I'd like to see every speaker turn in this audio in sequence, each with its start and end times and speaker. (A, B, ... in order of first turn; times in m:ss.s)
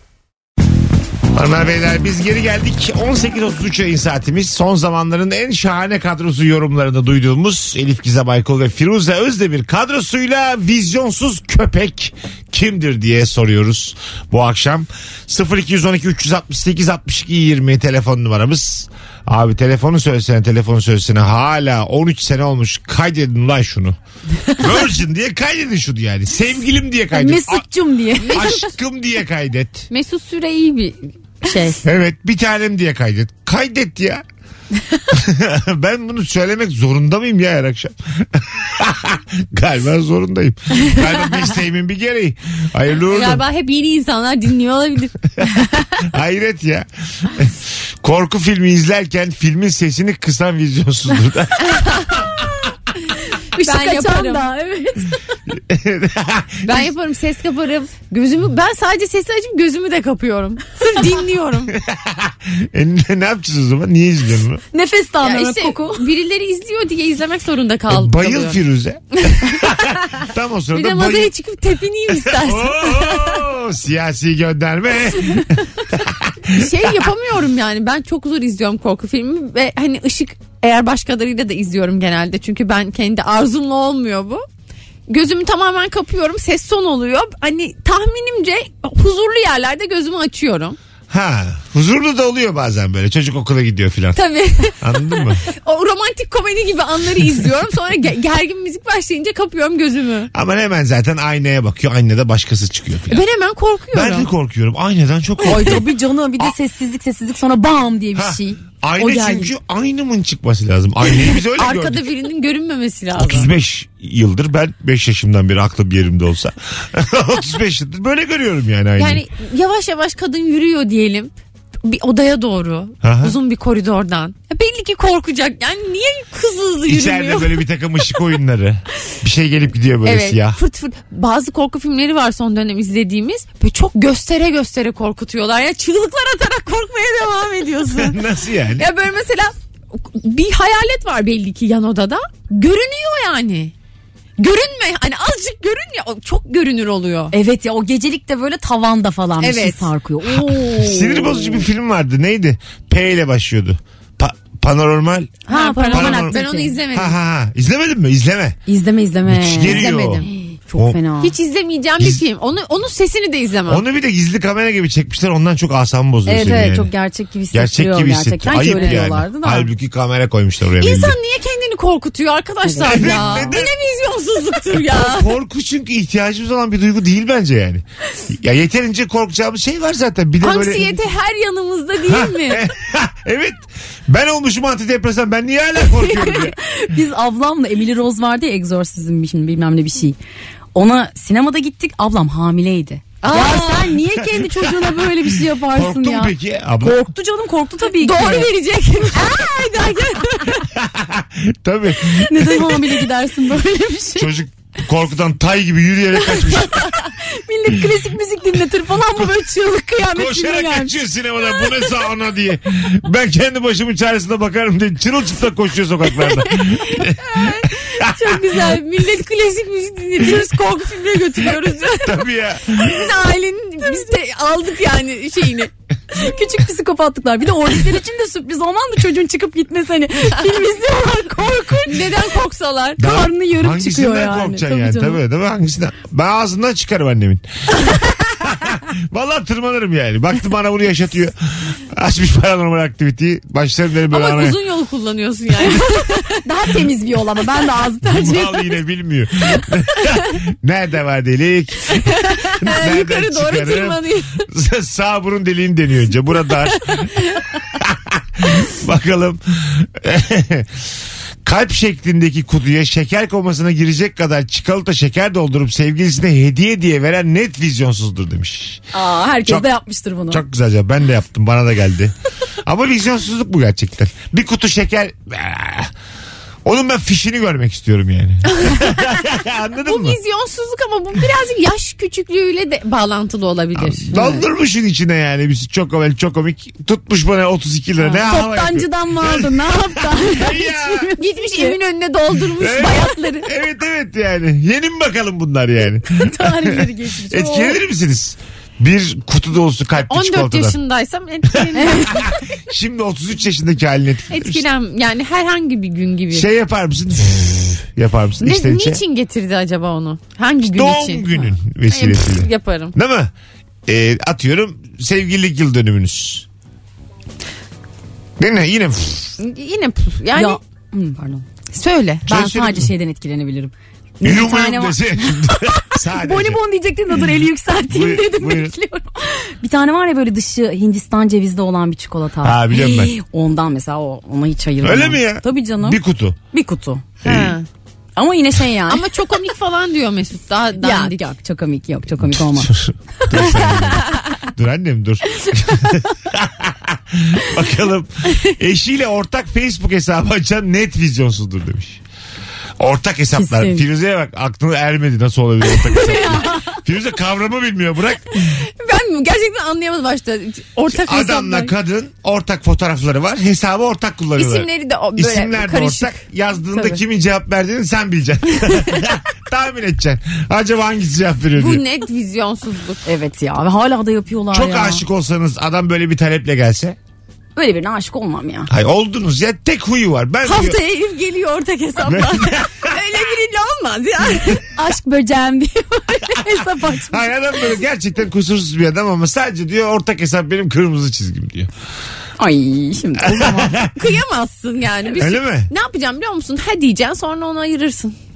0:01.3-0:24.0 A
0:24.6-0:27.6 A
0:27.1-0:28.5 B
0:28.2-0:28.7 C
0:28.3-0:29.9 A
0:29.9-0:31.8 C
0:31.4-0:31.8 B
0:31.8-0:34.2 A
0:35.1-0:43.4 A
0:43.1-0:45.2 C
0:46.1-0:52.2 A
0:51.6-0:52.3 C
0:53.6-0:54.5 C
0:53.6-0:55.2 B
0:55.5-0:56.9 A
0:56.6-1:01.8 C
1:01.7-1:04.6 A
1:04.7-1:06.0 B
1:05.2-1:08.6 C
1:07.9-1:11.3 A
1:09.2-1:09.9 C
1:10.7-1:13.4 C
1:12.2-1:17.0 A
1:16.5-1:24.4 C
1:25.1-1:30.8 C
1:31.1-1:34.2 A
1:34.2-1:40.3 C
1:34.8-1:35.4 A
1:40.3-1:43.2 A
1:43.1-1:44.3 C
1:43.9-1:45.9 A
1:45.5-1:49.5 B
1:45.5-1:45.8 C
1:48.2-1:52.1 A
1:51.2-1:53.5 C
1:53.2-1:59.2 A
1:59.0-2:01.3 C
2:01.8-2:08.2 C
2:03.0-2:03.4 A
2:06.9-2:10.6 A
2:10.0-2:18.2 C
2:18.0-2:18.9 A
2:18.8-2:23.7 C
2:24.4-2:27.3 C
2:27.3-2:31.7 B
2:29.4-2:29.9 C
2:30.3-2:38.6 A
2:35.5-2:36.8 B
2:35.5-2:37.2 C
2:38.7-2:41.3 B
2:39.3-2:41.0 A
2:39.6-2:40.3 C
2:41.2-2:43.8 C
2:43.7-2:46.9 A
2:46.3-2:49.7 B
2:47.5-2:51.2 A
2:48.7-2:49.0 C
2:50.8-2:55.3 C
2:52.7-2:53.2 B
2:52.9-2:53.7 A
2:54.8-3:01.0 A
3:00.4-3:02.6 C
3:02.1-3:06.6 A
3:06.2-3:10.2 B
3:10.8-3:18.5 B
3:13.2-3:14.0 C
3:14.2-3:15.2 A
3:15.7-3:17.0 A
3:18.0-3:20.7 C
3:20.8-3:22.8 A
3:22.2-3:24.3 B
3:24.2-3:26.9 A
3:26.8-3:31.0 B
3:30.1-3:38.8 A
3:36.5-3:45.7 C
3:41.9-3:43.1 A
3:46.1-3:52.1 B
3:51.8-3:53.0 C
3:53.0-3:57.4 A
3:53.0-3:55.2 B
3:58.3-4:04.6 A
4:04.1-4:06.4 C
4:05.7-4:08.7 B
4:08.0-4:12.0 A
4:12.1-4:14.5 C
4:12.6-4:17.2 A
4:17.8-4:20.8 A
4:21.4-4:28.9 A
4:28.9-4:30.4 B
4:30.3-4:35.9 A
4:36.6-4:40.2 A
4:38.5-4:39.2 C
4:39.8-4:44.3 C
4:43.8-4:51.1 A
4:44.1-4:44.4 B
4:48.2-4:51.8 B
4:51.2-4:53.5 C
4:52.6-5:00.8 A
4:56.1-4:57.8 B
5:00.1-5:02.3 C
5:01.8-5:02.3 B
5:02.3-5:04.6 A
5:04.3-5:06.5 C
5:06.3-5:09.0 A
5:08.4-5:12.9 C
5:10.6-5:13.3 A
5:13.9-5:16.5 A
5:18.4-5:19.4 A
5:19.4-5:20.6 C
5:20.3-5:21.5 B
5:21.7-5:22.3 C
5:22.3-5:22.9 A
5:22.3-5:36.0 B
5:24.2-5:26.6 A
5:24.3-5:24.9 C
5:27.9-5:28.7 A
5:32.4-5:33.2 A
5:34.8-5:36.4 A
5:36.5-5:37.0 B
5:37.2-5:37.6 A
5:37.2-5:37.7 C
5:38.2-5:39.0 B
5:38.9-5:41.2 C
5:40.8-5:42.8 B
5:42.2-5:52.0 A
5:52.8-5:58.5 A
5:53.4-5:53.8 B
5:56.0-5:56.8 B
5:58.5-6:01.7 C
6:00.9-6:11.8 A
6:04.4-6:06.2 C
6:11.6-6:13.0 C
6:13.0-6:15.0 B
6:14.5-6:17.0 A
6:17.6-6:18.7 B
6:18.7-6:20.8 A
6:20.4-6:24.7 C
6:22.0-6:23.0 A
6:24.7-6:27.3 B
6:27.0-6:31.7 A
6:32.4-6:33.8 B
6:33.2-6:33.9 A
6:34.0-6:38.2 C
6:35.2-6:35.7 A